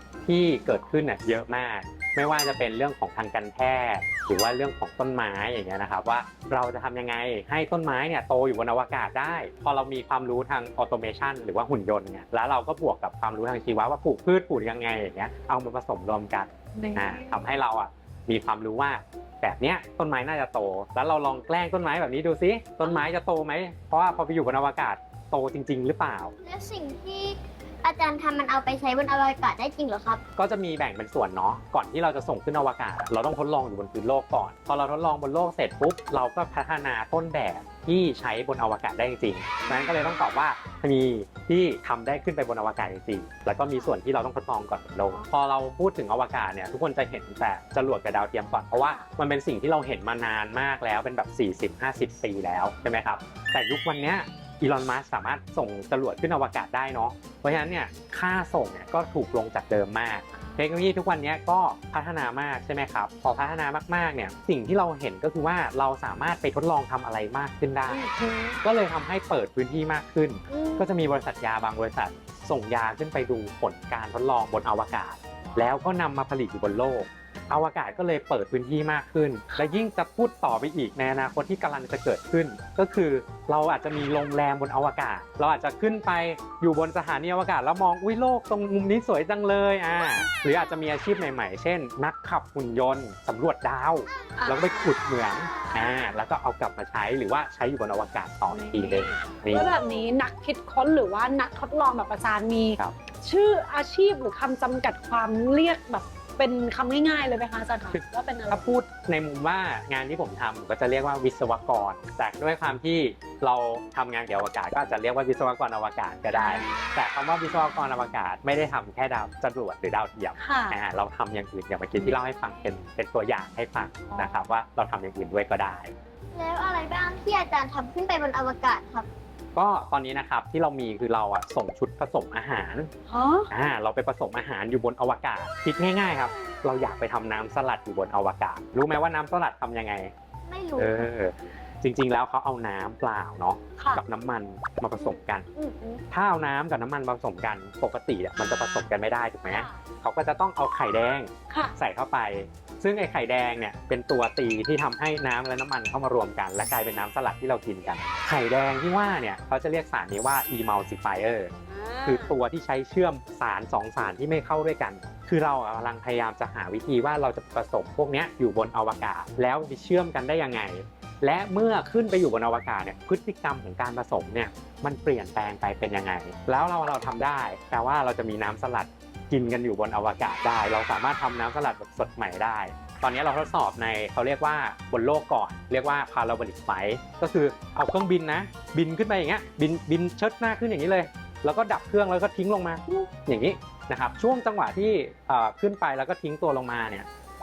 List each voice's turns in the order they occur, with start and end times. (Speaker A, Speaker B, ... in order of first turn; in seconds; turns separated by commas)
Speaker A: 0.2-26.3, Speaker B: 16.7-17.4, Speaker C: 26.4-30.2, Speaker A: 30.4-68.1, Speaker B: 39.6-40.2, Speaker B: 43.6-44.0, Speaker B: 48.7-49.1, Speaker B: 60.3-60.6, Speaker B: 67.9-68.6, Speaker A: 68.6-99.7, Speaker B: 70.5-70.9, Speaker B: 79.5-79.8, Speaker B: 94.3-94.9, Speaker B: 95.7-95.9, Speaker B: 98.5-108.7, Speaker A: 107.9-125.9, Speaker B: 116.3-116.8, Speaker B: 120.4-120.8, Speaker B: 124.1-124.3, Speaker C: 126.3-129.1, Speaker A: 129.5-132.9, Speaker B: 133.1-133.5, Speaker A: 133.5-140.1, Speaker C: 140.5-141.1, Speaker A: 140.8-145.4, Speaker B: 145.6-146.0, Speaker A: 146.1-161.5, Speaker B: 149.5-149.8, Speaker B: 151.5-151.7, Speaker B: 161.7-162.3, Speaker A: 162.0-197.1